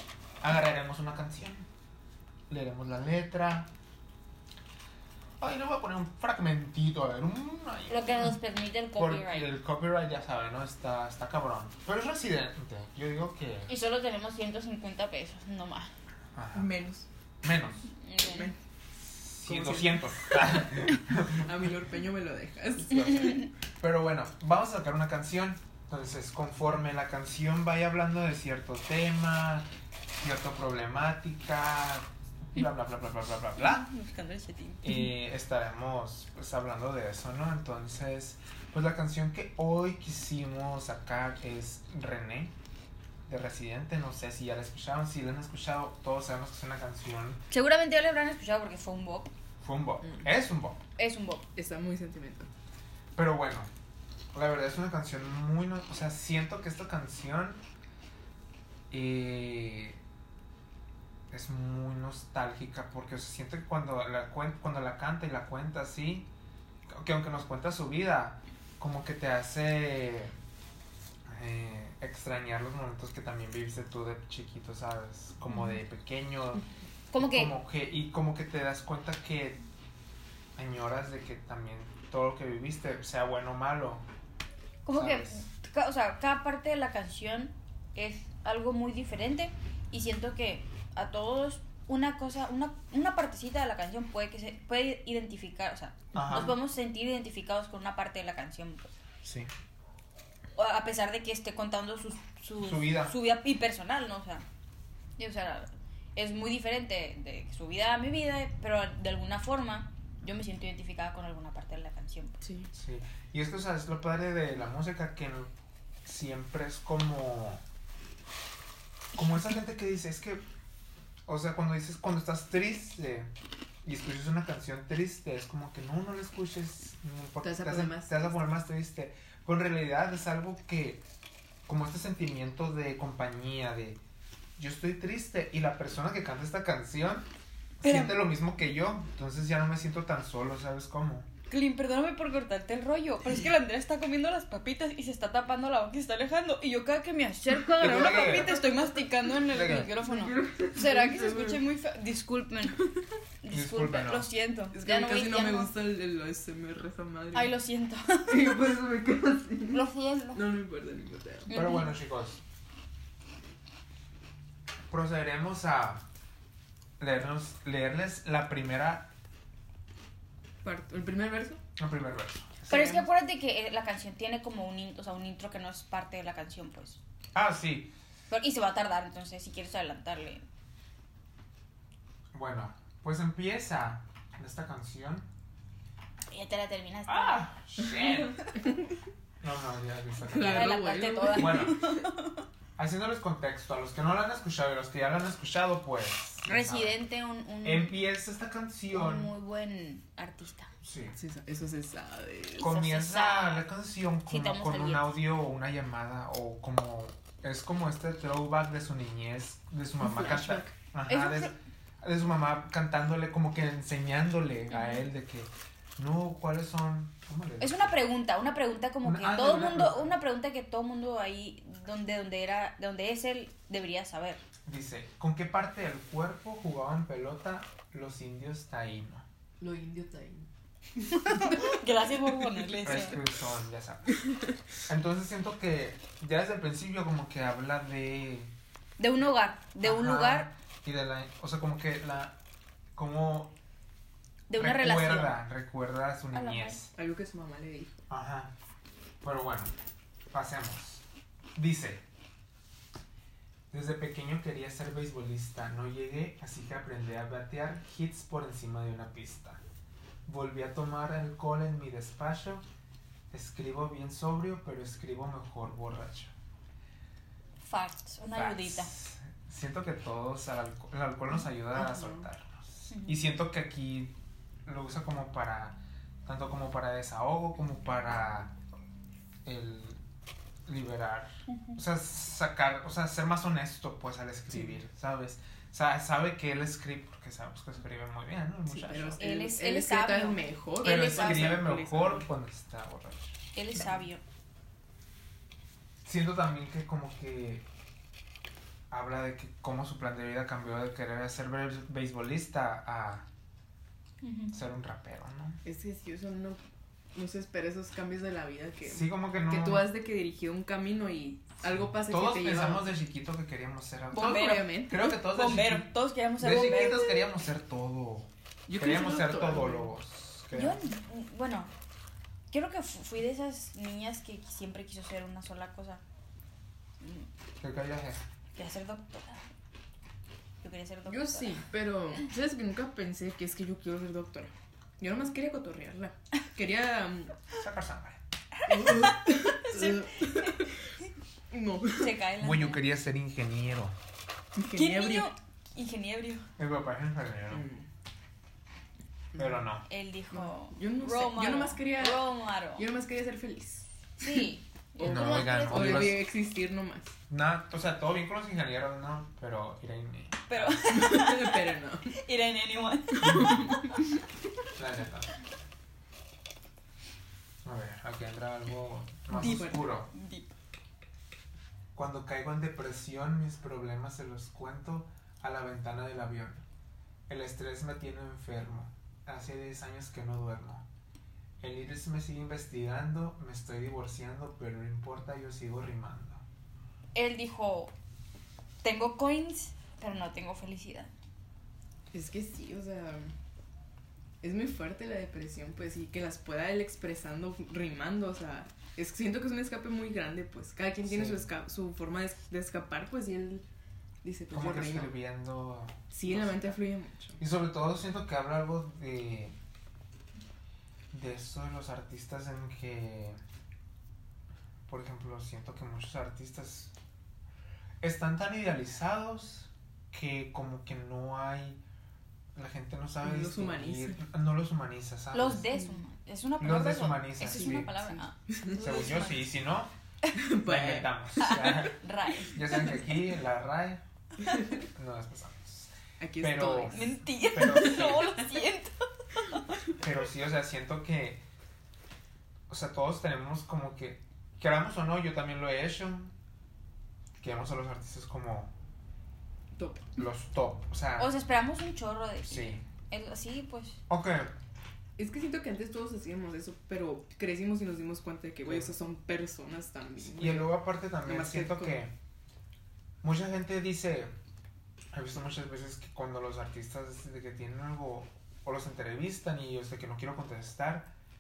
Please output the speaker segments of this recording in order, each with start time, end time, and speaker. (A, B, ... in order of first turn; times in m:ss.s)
0:00.4-0:01.7 A
0:02.5-0:03.7 A
0:05.4-0:08.4 A
0:07.9-0:09.5 B
0:09.0-0:13.7 A
0:13.7-0:15.9 B
0:16.4-0:16.7 A
0:16.5-0:17.1 C
0:17.4-0:17.8 A
0:18.0-0:18.5 B
0:18.2-0:18.6 C
0:19.0-0:21.5 A
0:19.4-0:23.4 C
0:22.9-0:33.9 A
0:23.0-0:23.5 B
0:33.6-0:34.8 B
0:34.8-0:42.5 A
0:43.3-0:47.4 A
0:47.5-0:49.3 B
0:49.6-0:50.8 A
0:51.0-0:51.5 B
0:51.6-0:52.5 C
0:53.2-0:53.7 A
0:54.3-0:57.6 A
0:58.9-1:00.0 A
1:01.3-1:06.3 A
1:06.9-1:10.3 A
1:11.3-1:16.6 A
1:17.1-1:17.5 B
1:17.2-1:19.6 A
1:20.6-1:24.0 A
1:24.8-1:38.9 B
1:24.9-1:25.4 A
1:36.1-1:36.6 A
1:39.2-1:39.5 A
1:40.6-1:44.4 B
1:42.6-1:43.2 A
1:45.2-1:52.4 B
1:52.4-1:52.7 C
1:52.7-1:55.5 A
1:56.0-1:57.6 A
1:59.2-2:00.4 A
2:01.3-2:03.3 A
2:03.8-2:11.0 A
2:07.4-2:08.3 C
2:11.7-2:14.0 A
2:14.6-2:17.3 A
2:17.8-2:21.3 A
2:17.8-2:18.2 B
2:21.5-2:32.8 B
2:27.8-2:28.6 A
2:29.5-2:29.9 A
2:30.0-2:31.6 C
2:33.4-2:35.7 B
2:33.5-2:34.3 A
2:34.7-2:37.6 C
2:37.3-2:38.5 B
2:38.3-2:41.6 C
2:39.7-2:40.4 B
2:41.5-2:41.9 B
2:41.5-2:42.4 A
2:44.9-2:46.0 A
2:47.0-2:49.1 A
2:50.6-2:51.6 C
2:51.8-2:53.1 A
2:52.7-2:57.0 B
2:57.4-2:57.9 A
2:58.3-3:00.4 B
3:02.3-3:05.3 A
3:06.3-3:07.4 B
3:07.1-3:08.4 A
3:09.4-3:10.8 A
3:10.2-3:12.0 C
3:10.4-3:12.4 B
3:11.3-3:11.8 A
3:12.8-3:17.0 A
3:16.5-3:18.0 B
3:17.6-3:19.3 A
3:18.9-3:20.7 B
3:20.8-3:21.2 A
3:21.2-3:22.7 C
3:22.6-3:38.0 A
3:22.6-3:23.7 B
3:24.3-3:25.2 B
3:30.0-3:30.7 C
3:31.1-3:31.5 B
3:34.7-3:35.0 B
3:37.6-3:44.4 B
3:39.0-3:40.1 A
3:44.7-3:49.2 A
3:49.6-3:50.5 C
3:51.0-3:51.8 C
3:51.1-3:53.2 B
3:52.8-3:54.2 A
3:54.9-3:58.5 A
3:59.0-4:00.5 B
3:59.8-4:02.4 A
4:03.0-4:03.5 A
4:04.5-4:05.4 B
4:04.5-4:06.9 A
4:06.3-4:06.8 B
4:07.0-4:08.0 C
4:08.1-4:08.5 A
4:09.2-4:09.7 A
4:10.3-4:11.0 A
4:11.6-4:12.0 A
4:13.7-4:19.6 A
4:20.3-4:22.6 A
4:23.3-4:26.3 A
4:27.6-4:28.9 B
4:28.3-4:34.1 A
4:31.7-4:32.3 C
4:32.9-4:33.2 B
4:34.6-4:38.5 A
4:39.4-4:40.0 A
4:40.7-4:49.2 A
4:41.5-4:41.8 B
4:44.5-4:44.8 C
4:48.7-4:52.3 C
4:49.2-4:51.6 B
4:50.8-4:53.4 A
4:53.6-4:54.2 B
4:56.0-4:57.6 A
4:58.9-5:03.3 A
5:04.2-5:04.6 B
5:04.5-5:05.6 A
5:05.6-5:06.6 C
5:07.2-5:12.9 C
5:08.8-5:09.9 A
5:11.6-5:20.8 A
5:14.1-5:17.2 B
5:14.2-5:15.1 C
5:18.7-5:19.9 C
5:20.5-5:21.7 B
5:22.5-5:26.0 B
5:27.0-5:27.3 B
5:27.6-5:28.3 A
5:28.6-5:29.5 B
5:30.6-5:31.6 B
5:31.1-5:37.4 C
5:37.5-5:38.2 A
5:38.6-5:40.7 B
5:38.7-5:40.8 C
5:41.5-5:42.1 C
5:41.9-5:42.8 B
5:42.4-5:44.0 A
5:44.6-5:45.3 C
5:44.7-5:46.5 B
5:46.6-5:47.6 A
5:47.5-5:47.8 C
5:49.4-5:49.8 A
5:49.9-5:52.9 B
5:50.3-5:53.9 C
5:54.2-5:56.2 B
5:55.0-5:57.2 C
5:55.0-5:56.3 A
5:57.3-6:00.8 A
6:00.5-6:01.6 B
6:00.9-6:02.1 C
6:02.1-6:04.0 B
6:03.2-6:04.0 C
6:03.2-6:03.6 A
6:04.8-6:05.3 A
6:07.6-6:10.1 A
6:09.3-6:09.9 C
6:09.4-6:10.5 B
6:11.9-6:16.6 A
6:17.3-6:20.9 A
6:21.6-6:26.4 A
6:27.2-6:27.9 B
6:28.8-6:31.1 B
6:32.1-6:33.3 C
6:34.4-6:43.6 C
6:41.1-6:41.4 A
6:44.2-6:45.2 C
6:44.5-6:46.8 A
6:46.1-6:47.4 C
6:47.4-6:49.6 A
6:51.1-6:53.4 A
6:54.9-6:56.9 A
6:58.0-7:01.8 A
7:02.6-7:05.7 A
7:03.2-7:04.2 C
7:05.3-7:09.4 B
7:05.7-7:06.0 C
7:06.6-7:08.0 A
7:07.4-7:09.3 C
7:08.8-7:09.9 A
7:10.4-7:11.7 C
7:10.6-7:12.0 A
7:11.4-7:13.0 B
7:12.5-7:14.0 A
7:14.4-7:14.8 C
7:14.9-7:18.3 A
7:16.2-7:18.4 C
7:16.9-7:19.8 B
7:20.0-7:21.4 A
7:22.7-7:26.3 A
7:27.4-7:28.7 A
7:29.8-7:30.2 C
7:30.2-7:31.3 A
7:31.2-7:34.0 B
7:32.5-7:32.8 A
7:34.1-7:34.5 A
7:35.2-7:42.0 C
7:38.7-7:38.9 A
7:40.3-7:42.1 A
7:43.2-7:44.3 A
7:45.1-7:51.1 A